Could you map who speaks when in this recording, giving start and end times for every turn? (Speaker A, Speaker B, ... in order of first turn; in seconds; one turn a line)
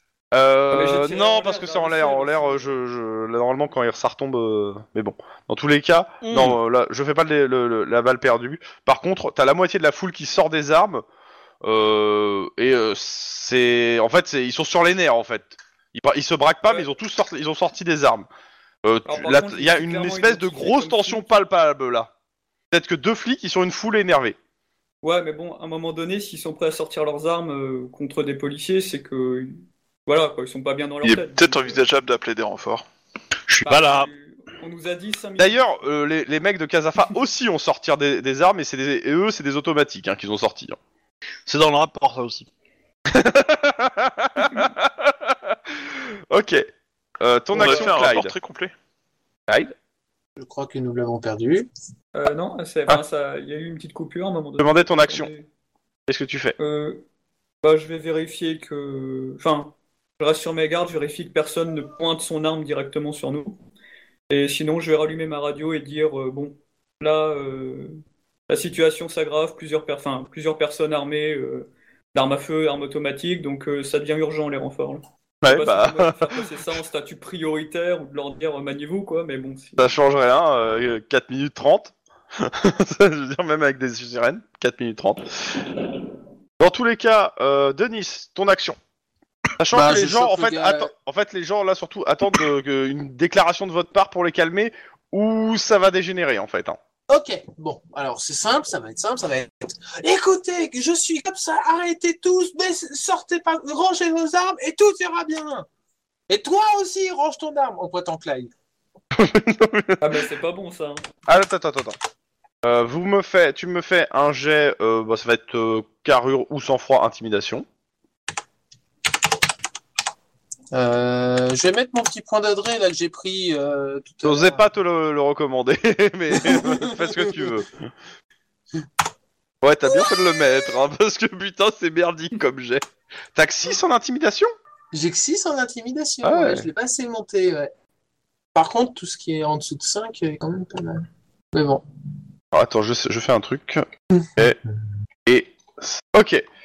Speaker A: 0.3-11.0
Speaker B: 0.7-2.7
Speaker C: 6.2-6.6
Speaker A: 11.6-18.3
Speaker A: 18.8-22.1
Speaker B: 19.1-21.4
Speaker A: 22.7-24.4
Speaker B: 25.0-31.8
Speaker D: 31.0-32.8
Speaker C: 33.5-34.1
Speaker B: 33.6-35.6
Speaker A: 35.4-40.8
Speaker C: 41.5-42.5
Speaker A: 43.1-46.7
Speaker A: 47.2-48.3
Speaker D: 47.5-48.7
Speaker B: 47.6-48.0
Speaker E: 50.4-51.7
Speaker B: 52.1-55.5
Speaker A: 54.6-55.3
Speaker A: 56.1-56.5
Speaker B: 56.6-57.0
Speaker B: 57.6-63.6
Speaker B: 64.3-68.0
Speaker B: 68.5-79.9
Speaker A: 75.4-76.4
Speaker A: 79.8-85.6
Speaker A: 86.6-88.8
Speaker A: 89.6-96.8
Speaker E: 89.7-90.9
Speaker E: 97.1-105.7
Speaker E: 106.3-108.5
Speaker A: 109.1-110.2
Speaker B: 110.0-111.0
Speaker A: 111.3-112.0
Speaker A: 112.6-117.7
Speaker E: 120.7-124.6
Speaker A: 124.2-127.7
Speaker E: 126.3-127.6
Speaker A: 129.6-132.8
Speaker E: 129.9-130.2
Speaker A: 133.3-134.5
Speaker E: 134.9-137.7
Speaker A: 136.2-136.7
Speaker E: 138.5-141.8
Speaker A: 142.5-144.6
Speaker A: 145.2-146.4